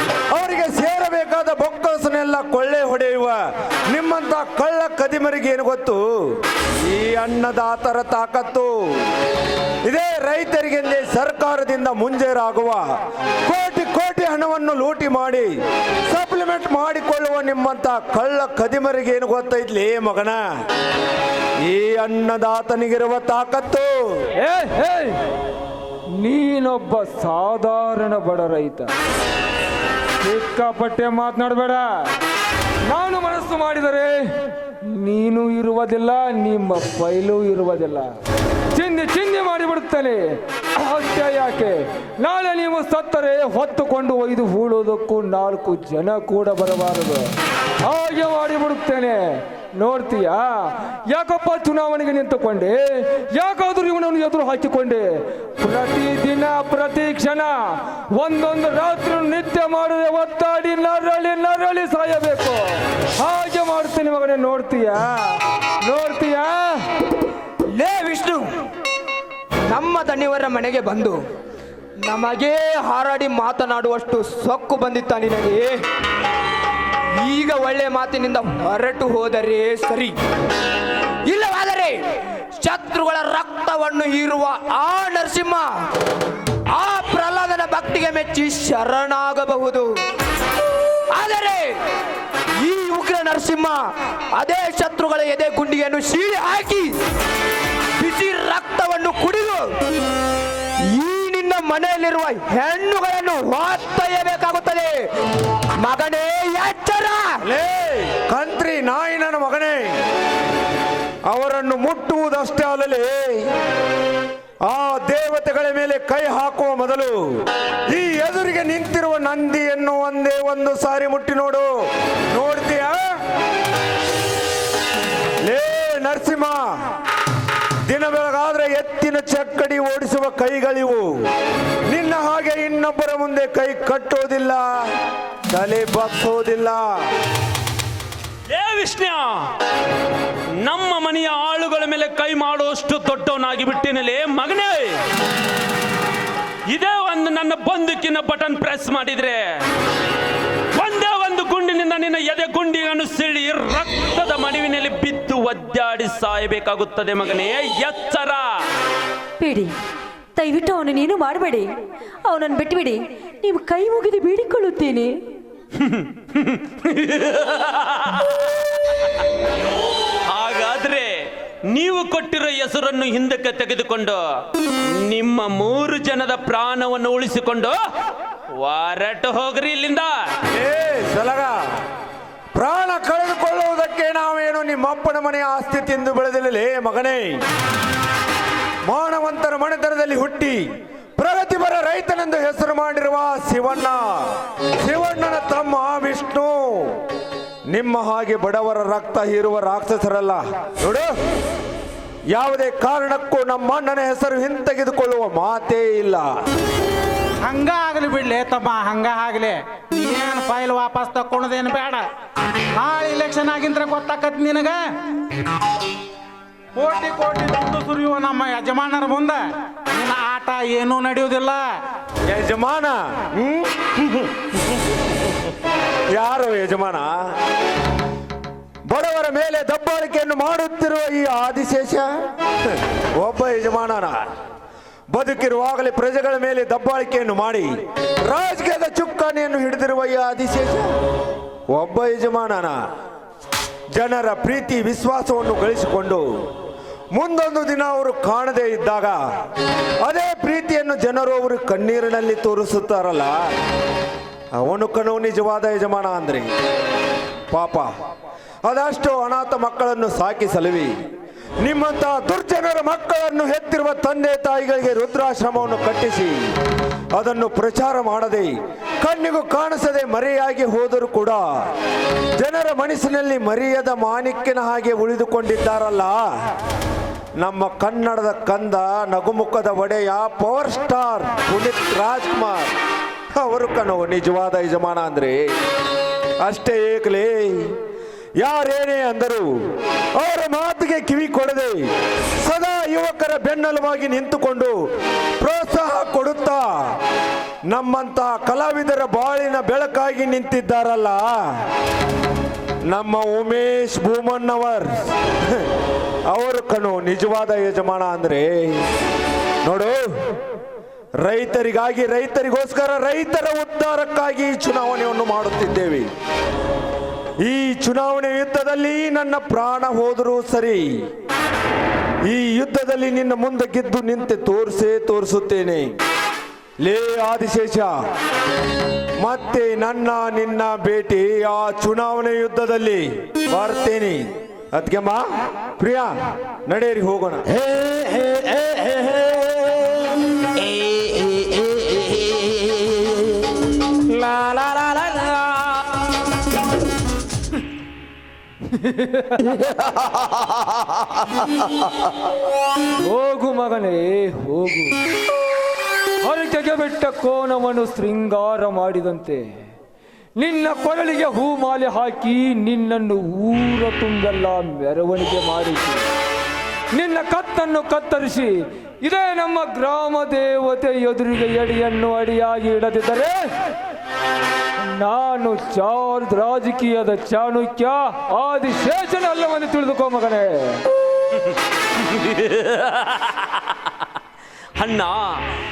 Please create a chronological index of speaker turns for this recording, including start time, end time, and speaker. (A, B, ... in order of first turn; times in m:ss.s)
0:00.3-0:08.7 A
0:09.8-0:12.8 A
0:13.4-0:15.5 A
0:16.1-0:20.4 A
0:21.6-0:24.0 A
0:24.4-0:25.2 B
0:26.2-0:28.9 B
0:30.2-0:32.1 B
0:32.8-0:34.3 B
0:34.8-0:38.1 B
0:38.7-0:47.3 B
0:47.8-1:06.8 B
1:07.7-1:08.5 C
1:09.7-1:11.2 C
1:12.1-1:15.8 C
1:17.2-1:20.1 C
1:21.3-1:22.0 C
1:22.6-1:25.7 C
1:26.7-1:29.9 C
1:31.1-1:31.7 C
1:32.6-1:36.9 C
1:38.0-1:39.7 C
1:40.9-1:45.0 C
1:45.8-1:47.4 C
1:47.4-1:50.0 A
1:51.3-1:53.5 A
1:54.6-2:01.7 A
2:02.3-2:03.2 A
2:05.4-2:06.7 A
2:07.8-2:11.1 A
2:11.9-2:14.7 A
2:15.5-2:16.8 A
2:18.5-2:19.5 D
2:20.6-2:25.0 D
2:26.7-2:29.4 D
2:30.8-2:38.5 D
2:39.4-2:39.7 E
2:40.4-2:41.7 E
2:42.2-2:45.1 E
2:45.8-2:48.4 D
2:50.3-2:51.2 D
2:51.7-2:54.2 D
2:54.8-2:57.8 D
2:58.6-3:00.3 D
3:00.5-3:01.6 A
3:02.6-3:07.4 A
3:08.8-3:17.0 A
3:17.7-3:21.1 A
3:22.3-3:26.3 A
3:27.4-3:32.0 F
3:32.8-3:34.8 F
3:36.8-3:39.4 F
3:39.9-3:41.6 F
3:42.2-3:44.8 A
3:46.1-3:47.2 A
3:48.8-3:52.1 A
3:52.6-3:54.2 A
3:55.1-3:57.7 A
3:58.2-4:00.9 A
4:01.7-4:02.8 A
4:03.9-4:06.3 A
4:07.1-4:09.2 A
4:10.0-4:13.4 A
4:14.6-4:16.5 A
4:17.5-4:17.9 A
4:18.6-4:20.9 A
4:21.6-4:26.5 A
4:27.1-4:31.4 A
4:32.4-4:36.2 A
4:37.4-4:42.7 A
4:43.3-4:45.4 A
4:46.4-4:47.7 A
4:48.4-4:49.5 A
4:50.2-4:54.8 A
4:55.4-4:56.7 A
4:57.7-5:01.3 A
5:02.9-5:05.7 A
5:06.3-5:08.8 A
5:09.6-5:10.1 A
5:11.2-5:16.1 A
5:17.4-5:20.9 A
5:22.2-5:25.9 A
5:26.8-5:28.0 A
5:29.2-5:35.2 A
5:35.8-5:36.1 A
5:36.6-5:37.4 A
5:37.5-5:43.4 G
5:44.0-5:46.0 G
5:48.8-5:49.4 B
5:49.6-5:51.6 G
5:53.0-5:55.0 B
5:56.2-5:59.5 B
6:00.4-6:06.0 B
6:06.9-6:13.4 B
6:14.8-6:20.8 B
6:21.5-6:23.8 D
6:24.8-6:25.4 D